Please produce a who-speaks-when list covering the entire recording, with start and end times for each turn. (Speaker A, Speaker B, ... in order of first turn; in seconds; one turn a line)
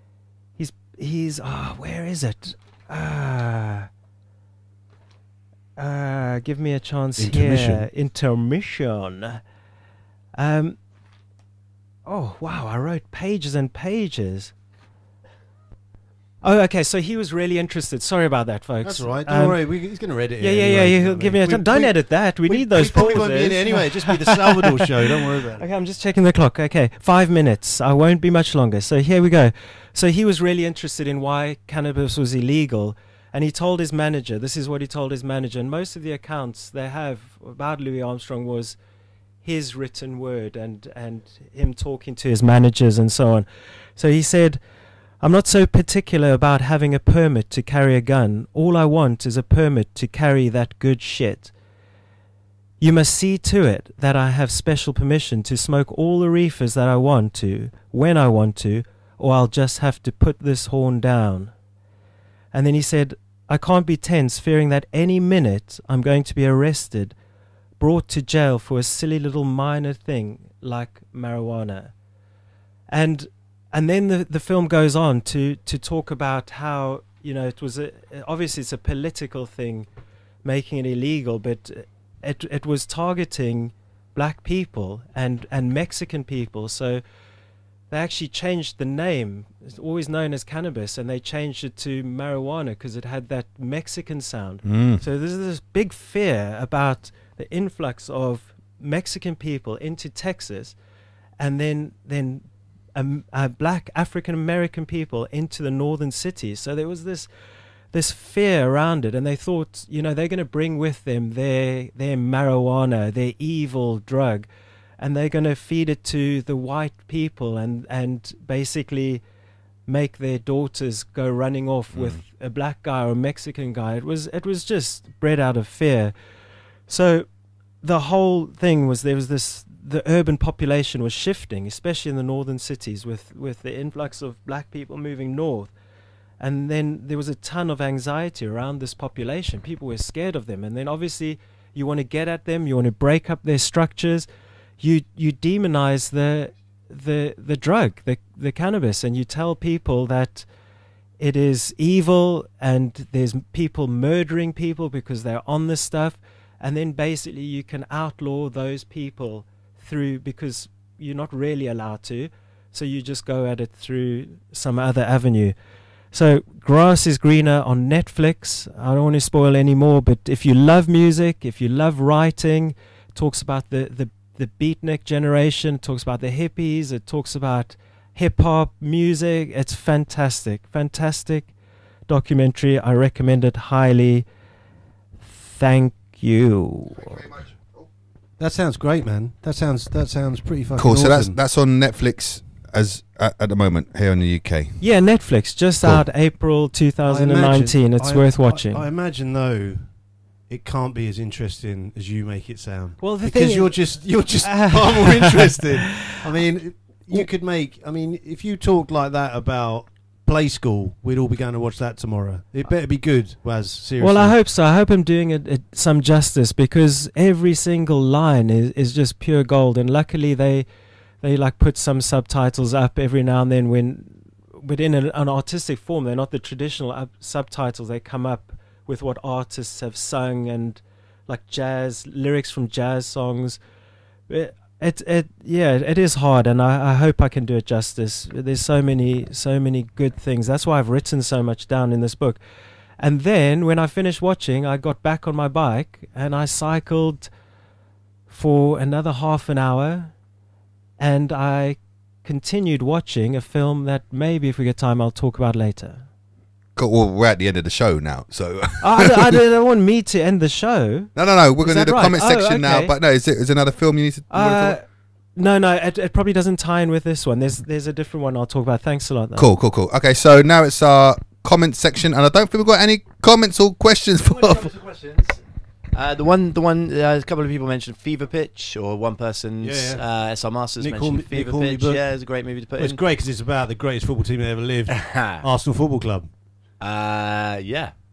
Speaker A: 0.6-3.9
Speaker A: 5.8-9.4
Speaker B: 7.2-7.8
Speaker A: 10.4-10.8
Speaker A: 12.1-14.5
Speaker A: 16.4-19.6
Speaker B: 18.8-21.9
Speaker A: 20.4-38.8
Speaker B: 22.5-25.6
Speaker A: 39.4-43.5
Speaker A: 44.0-44.6
Speaker A: 45.2-51.5
Speaker A: 52.8-61.5
Speaker A: 62.5-67.2
Speaker A: 67.8-71.9
Speaker A: 72.9-79.9
Speaker A: 80.5-87.0
Speaker A: 87.9-100.8
Speaker C: 94.7-95.0
Speaker A: 101.4-102.4
Speaker A: 103.0-107.3
Speaker A: 107.9-114.5
Speaker A: 115.0-119.2
Speaker A: 119.9-126.1
Speaker A: 126.9-127.3
Speaker A: 127.8-135.7
Speaker A: 136.4-144.3
Speaker A: 144.8-150.5
Speaker A: 151.2-165.6
Speaker A: 166.1-181.5
Speaker A: 182.1-184.2
Speaker A: 185.3-187.3
Speaker B: 188.4-191.4
Speaker C: 190.8-194.8
Speaker A: 194.8-198.9
Speaker B: 197.1-199.8
Speaker B: 200.5-214.4
Speaker A: 203.0-203.8
Speaker A: 204.4-206.2
Speaker A: 214.0-220.7
Speaker A: 221.2-233.6
Speaker A: 234.3-242.4
Speaker A: 243.0-247.3
Speaker A: 248.3-250.1
Speaker A: 251.0-256.0
Speaker C: 256.8-259.4
Speaker A: 258.8-262.9
Speaker C: 261.2-264.8
Speaker A: 264.3-264.8
Speaker A: 265.4-269.5
Speaker C: 269.4-274.7
Speaker D: 274.2-275.4
Speaker D: 275.9-283.0
Speaker B: 279.6-280.0
Speaker B: 280.8-282.1
Speaker B: 282.8-286.3
Speaker D: 284.9-285.4
Speaker D: 286.8-287.9